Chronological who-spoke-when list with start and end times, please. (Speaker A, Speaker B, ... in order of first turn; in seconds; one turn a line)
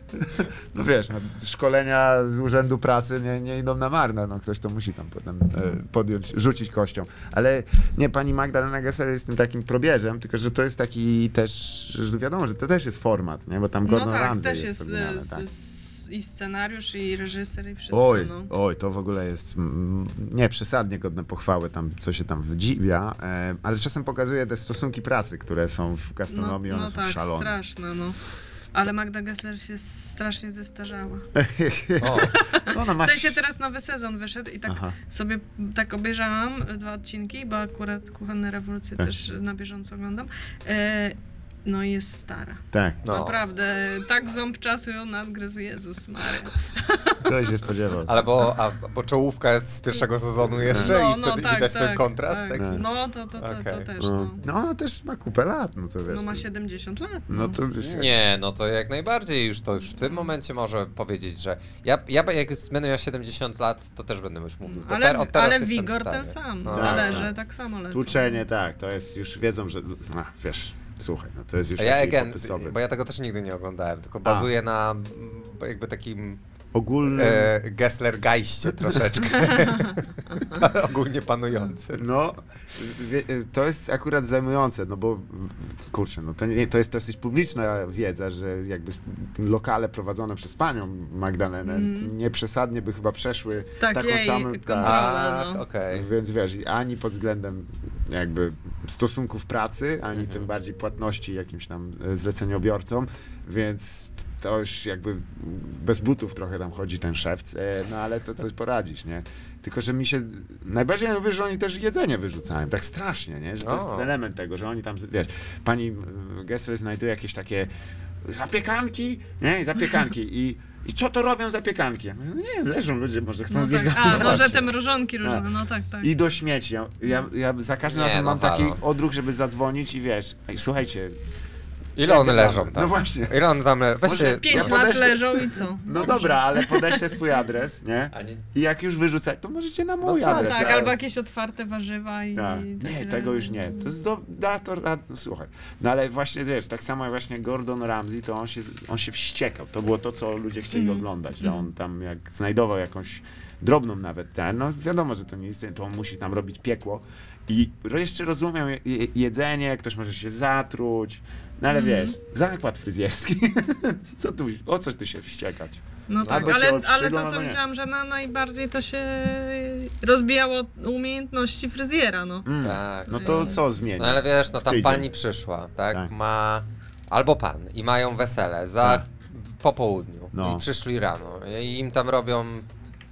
Speaker A: 0.1-15.5
Speaker B: 13.9-18.5
Speaker A: 17.9-27.6
Speaker B: 26.3-28.2
Speaker B: 28.7-31.3
Speaker A: 31.4-33.5
Speaker C: 32.0-32.4
Speaker B: 32.3-47.3
Speaker A: 34.7-35.0
Speaker A: 42.7-43.0
Speaker C: 43.0-43.4
Speaker A: 47.2-48.1
Speaker C: 48.0-52.9
Speaker A: 50.6-51.0
Speaker B: 50.7-54.4
Speaker A: 52.6-52.8
Speaker C: 53.4-53.9
Speaker A: 54.0-56.5
Speaker B: 56.1-57.6
Speaker A: 57.3-58.1
Speaker C: 57.8-67.3
Speaker B: 64.7-68.3
Speaker A: 66.7-67.4
Speaker A: 67.9-72.8
Speaker C: 71.8-76.4
Speaker A: 74.2-74.5
Speaker A: 76.7-77.5
Speaker C: 77.1-82.1
Speaker A: 81.9-95.0
Speaker B: 91.7-92.1
Speaker B: 93.8-95.6
Speaker C: 94.8-96.1
Speaker A: 95.9-117.7
Speaker C: 100.2-100.5
Speaker C: 113.6-114.1
Speaker A: 118.2-125.5
Speaker B: 123.5-126.1
Speaker C: 124.1-124.5
Speaker A: 126.0-131.2
Speaker C: 127.9-128.8
Speaker C: 132.0-135.0
Speaker A: 132.0-133.4
Speaker A: 134.0-141.0
Speaker B: 134.3-137.2
Speaker C: 138.1-138.4
Speaker C: 140.0-140.9
Speaker B: 140.2-143.9
Speaker A: 142.3-167.6
Speaker B: 150.7-151.7
Speaker B: 161.7-162.2
Speaker B: 166.1-172.5
Speaker C: 166.2-166.6
Speaker A: 172.4-175.1
Speaker C: 172.6-182.7
Speaker B: 173.1-173.6
Speaker A: 180.3-180.7